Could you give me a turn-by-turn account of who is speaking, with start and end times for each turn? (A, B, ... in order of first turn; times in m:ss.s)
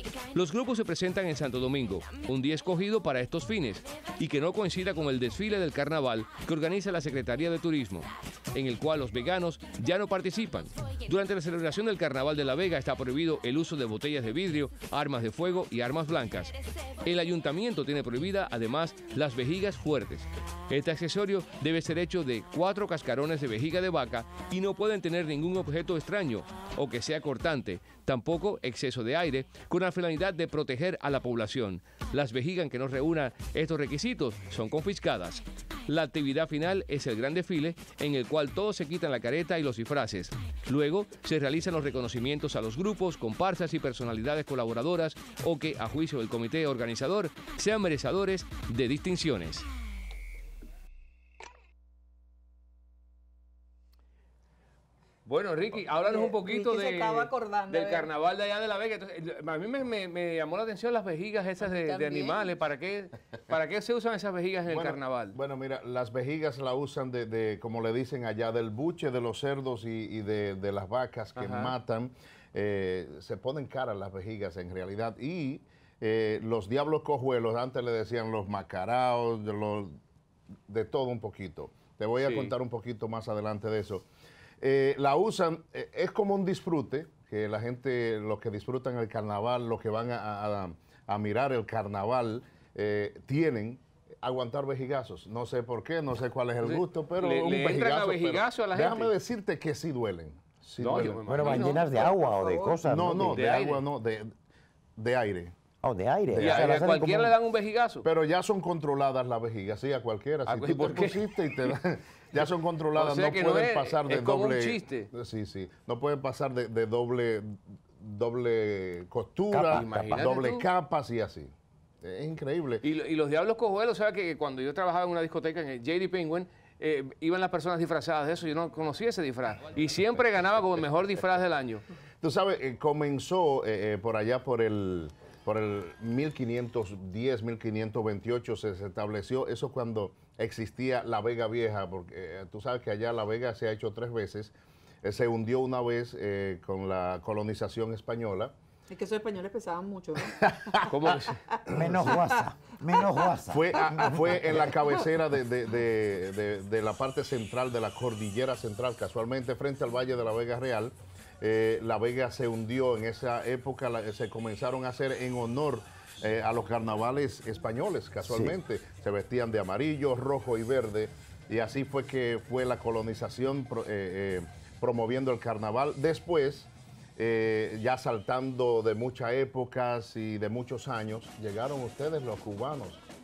0:00.3-0:49.6 A
0:55.2-1:05.4 A
0:56.4-0:57.2 B
1:01.9-1:02.4 B
1:04.6-1:20.0 C
1:11.4-1:11.8 A
1:20.7-1:24.1 C
1:22.2-1:22.5 A
1:24.6-1:41.8 C
1:36.6-1:39.1 A
1:40.8-1:42.2 A
1:41.2-1:43.4 D
1:42.8-1:44.3 C
1:43.2-1:43.8 A
1:45.0-1:45.5 C
1:45.8-1:47.3 D
1:46.3-1:46.8 C
1:46.4-1:48.1 A
1:48.0-2:02.8 C
1:50.4-1:51.7 A
1:52.9-1:55.1 A
1:59.5-2:00.4 D
1:59.7-2:00.7 A
2:02.8-2:11.8 A
2:12.2-2:28.5 C
2:28.9-2:30.2 B
2:30.3-2:31.1 C
2:30.9-2:31.4 A
2:31.7-2:34.8 D
2:31.7-2:32.0 C
2:33.5-3:03.0 C
2:48.2-2:48.6 D